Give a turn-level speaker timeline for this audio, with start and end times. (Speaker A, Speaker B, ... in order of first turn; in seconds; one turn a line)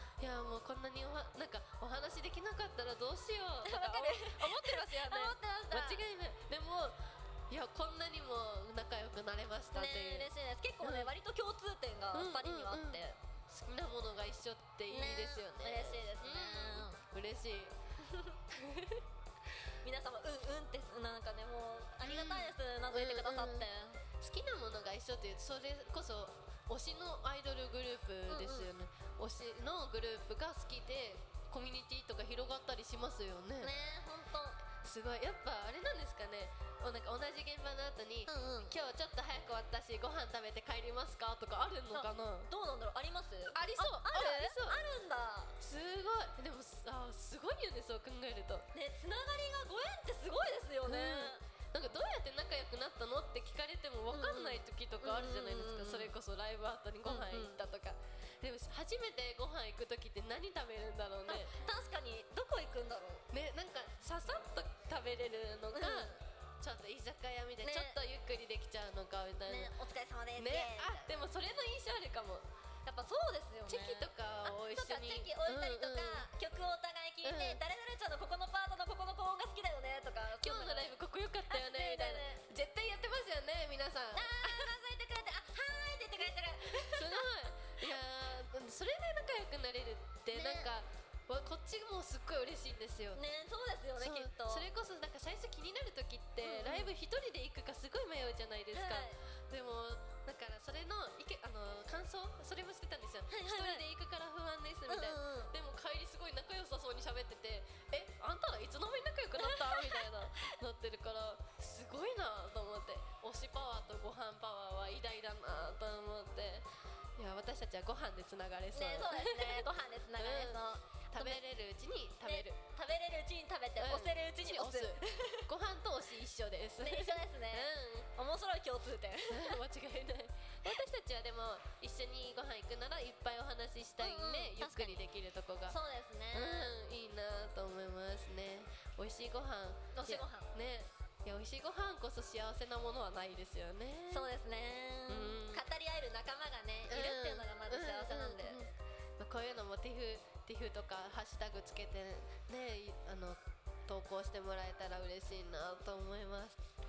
Speaker A: 0.2-7.0
Speaker B: 3.6-6.0
Speaker A: 7.5-10.3
Speaker B: 9.7-13.2
Speaker A: 10.8-11.1
Speaker A: 12.1-17.7
Speaker B: 14.9-17.0
Speaker B: 18.1-18.3
Speaker A: 18.6-19.0
Speaker B: 19.8-24.0
Speaker A: 22.0-23.7
Speaker A: 24.2-33.7
Speaker B: 28.3-28.7
Speaker B: 33.6-34.6
Speaker A: 34.8-42.5
Speaker B: 38.3-38.7
Speaker B: 41.9-45.5
Speaker A: 43.5-44.8
Speaker A: 45.6-48.7
Speaker B: 48.7-51.4
Speaker A: 50.9-61.5
Speaker B: 54.1-56.1
Speaker B: 57.0-57.6
Speaker B: 61.3-63.2
Speaker A: 63.3-69.7
Speaker B: 65.7-66.2
Speaker B: 67.6-68.0
Speaker B: 69.5-71.2
Speaker A: 70.4-72.5
Speaker B: 72.9-80.9
Speaker A: 73.7-76.3
Speaker A: 77.2-77.6
Speaker A: 80.4-84.7
Speaker B: 81.5-82.4
Speaker B: 84.2-87.3
Speaker A: 86.9-93.2
Speaker B: 90.3-90.7
Speaker B: 93.2-94.7
Speaker A: 94.0-116.7
Speaker B: 96.4-96.9
Speaker B: 98.7-99.2
Speaker B: 103.3-103.9
Speaker B: 104.9-105.5
Speaker B: 109.4-110.0
Speaker A: 117.2-119.7
Speaker B: 118.7-121.4
Speaker A: 120.2-122.6
Speaker B: 122.2-125.5
Speaker A: 123.8-128.1
Speaker B: 126.8-129.6
Speaker A: 129.3-135.8
Speaker B: 134.0-135.0
Speaker B: 135.7-136.8
Speaker A: 136.3-144.3
Speaker B: 139.9-140.5
Speaker B: 144.1-148.6
Speaker A: 145.1-145.6
Speaker A: 146.9-156.6